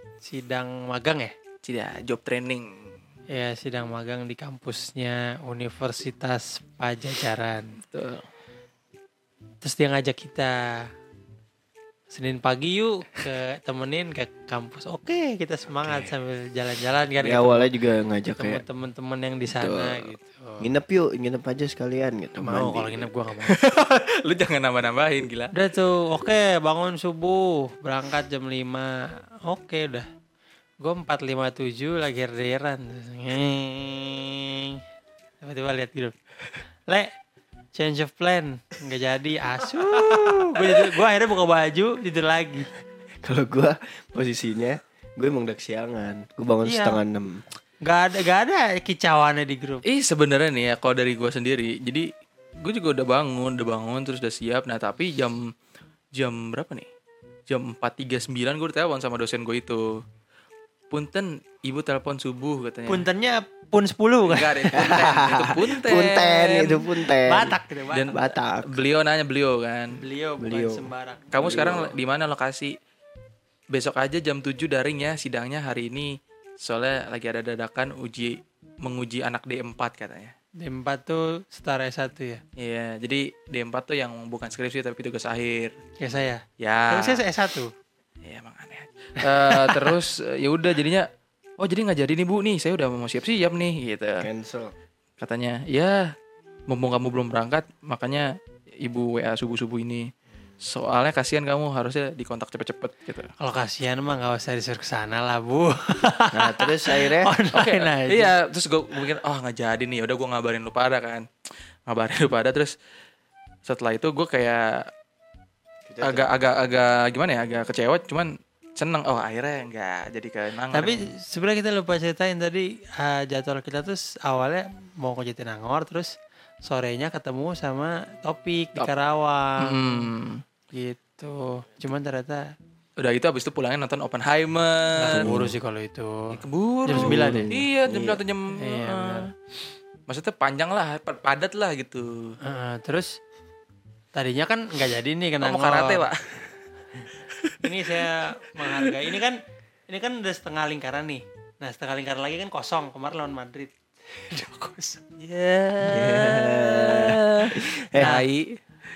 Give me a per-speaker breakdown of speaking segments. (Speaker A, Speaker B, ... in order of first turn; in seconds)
Speaker A: 0.2-1.3, 3.3-7.7, 9.6-10.9, 12.1-17.7, 18.4-20.7, 22.4-23.6, 25.5-30.1, 30.8-34.8, 35.4-36.1, 37.7-42.7, 46.6-47.0, 47.8-49.8, 62.9-65.1, 67.2-68.3, 69.9-71.5, 80.6-82.4, 86.0-87.7, 89.3-89.9, 103.4-108.3, 120.7-130.1, 130.7-132.5, 135.0-137.5, 138.5-139.3, 142.4-143.2, 144.1-146.0, 147.6-153.7, 154.5-155.0, 158.0-158.2
Speaker B: 1.6-2.8, 7.9-8.2, 23.4-25.5, 49.8-52.1, 52.6-55.5, 56.1-56.9, 57.5-60.0, 60.9-63.0, 64.2-66.9, 67.9-70.0, 71.3-72.7, 73.7-80.3, 82.6-85.8, 86.6-87.2, 88.2-91.1, 91.6-94.3, 95.2-96.1, 96.7-100.1, 100.6-103.3, 107.5-111.3, 111.9-112.7, 113.6-114.9, 116.0-121.1, 129.6-130.4, 133.0-135.4, 136.3-139.3, 140.1-142.3, 145.4-146.4, 155.2-158.6
Speaker C: 15.8-16.1, 17.2-18.6, 19.5-23.1, 43.2-47.5, 64.7-67.5, 68.1-68.8, 70.4-71.9, 94.2-94.7, 106.3-107.3, 115.9-116.3, 135.1-135.5, 136.9-138.2, 154.4-154.7, 155.9-158.2